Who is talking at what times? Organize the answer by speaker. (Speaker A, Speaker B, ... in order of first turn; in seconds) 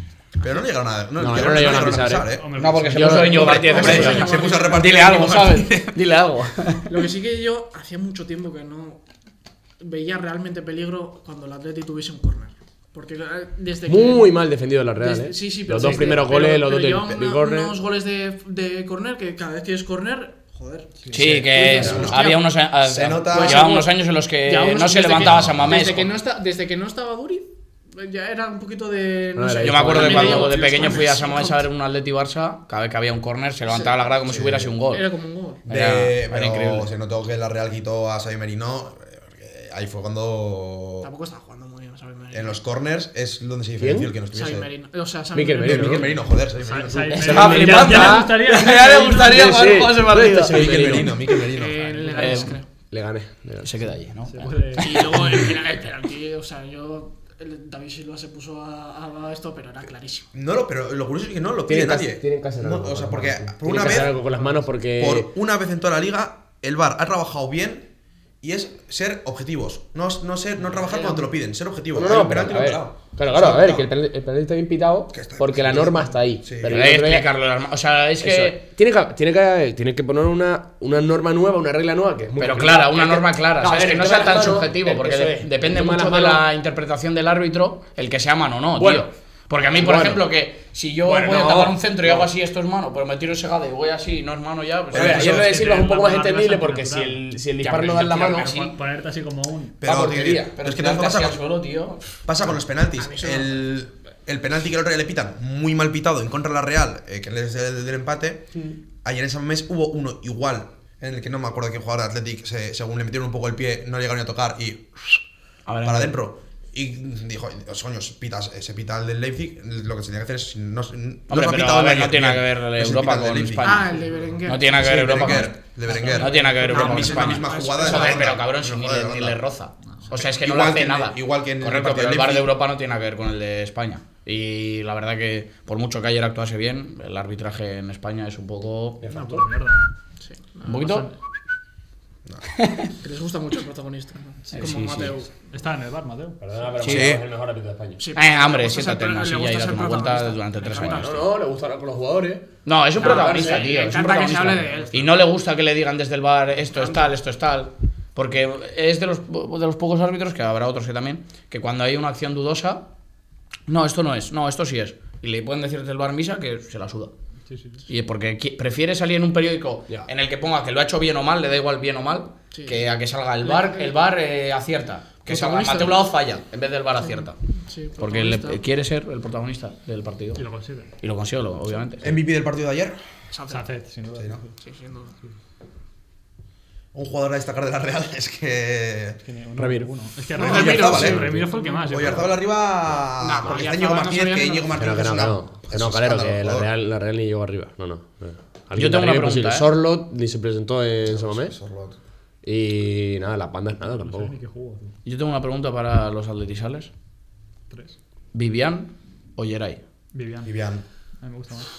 Speaker A: 0.4-2.6, 3.2-6.0, 21.7-22.3, 22.8-23.7, 25.1-25.8, 34.3-34.7, 35.7-41.1, 42.3-44.7, 45.6-47.6, 50.5-52.0, 60.3-64.2, 65.0-67.9, 68.4-73.8, 75.1-76.8, 94.9-95.5, 99.8-101.4, 102.2-115.2, 115.8-123.8, 124.7-129.4, 130.1-132.5, 146.8-147.2, 182.0-183.0, 184.1-184.4, 186.9-189.2, 190.4-191.2, 191.9-196.7, 201.0-202.0, 210.4-210.8
Speaker B: 1.2-2.3, 2.9-4.2, 13.9-17.8, 21.1-22.1, 29.4-30.6, 43.8-44.1, 45.3-46.1, 47.2-51.2, 52.9-53.9, 61.6-65.3, 71.9-77.3, 78.2-86.4, 88.8-89.1, 89.7-90.2, 91.0-92.3, 94.9-98.5, 99.8-100.5, 139.0-139.5, 146.4-148.0, 150.7-152.5, 153.0-153.7, 189.6-189.9, 191.0-191.4, 194.8-201.6, 202.4-204.3
Speaker C: 2.2-4.1, 15.8-16.2, 46.6-49.5, 51.6-52.5, 54.3-55.2, 64.3-64.6, 95.2-97.2, 98.0-99.8, 126.0-126.9, 139.0-139.9, 140.7-141.1, 144.5-146.7, 167.5-167.8, 180.3-180.9, 183.5-184.5, 189.2-192.3, 203.9-205.0, 207.7-207.9, 210.1-210.5, 211.2-211.7
Speaker D: 2.5-7.1, 21.1-26.1, 29.6-35.1, 35.6-36.9, 47.1-51.0, 52.1-52.6, 53.6-55.2, 76.7-78.6, 82.4-95.4, 97.6-98.8, 100.5-102.2, 115.7-116.1, 121.3-139.0, 140.7-141.1, 142.5-142.9, 144.5-145.1, 146.8-147.2, 148.1-151.1, 152.6-162.8, 163.7-167.1, 167.9-177.3, 178.0-180.4, 181.0-182.1, 198.8-199.7, 205.0-206.9, 208.3-209.8
Speaker E: 3.6-4.9, 6.9-9.0, 9.8-14.4, 15.0-22.5, 23.3-31.6, 33.6-34.0, 34.9-35.6, 41.0-42.6, 44.3-46.3, 51.4-52.7, 54.8-60.3, 70.8-71.3, 103.0-103.7, 123.6-125.5, 126.2-128.3, 140.2-140.9, 143.0-145.3, 148.0-151.3, 153.0-155.1, 156.7-157.1, 172.5-172.8, 173.4-174.0, 175.3-176.1, 177.0-178.6, 183.3-183.7, 184.6-185.2, 190.3-192.2, 193.2-195.0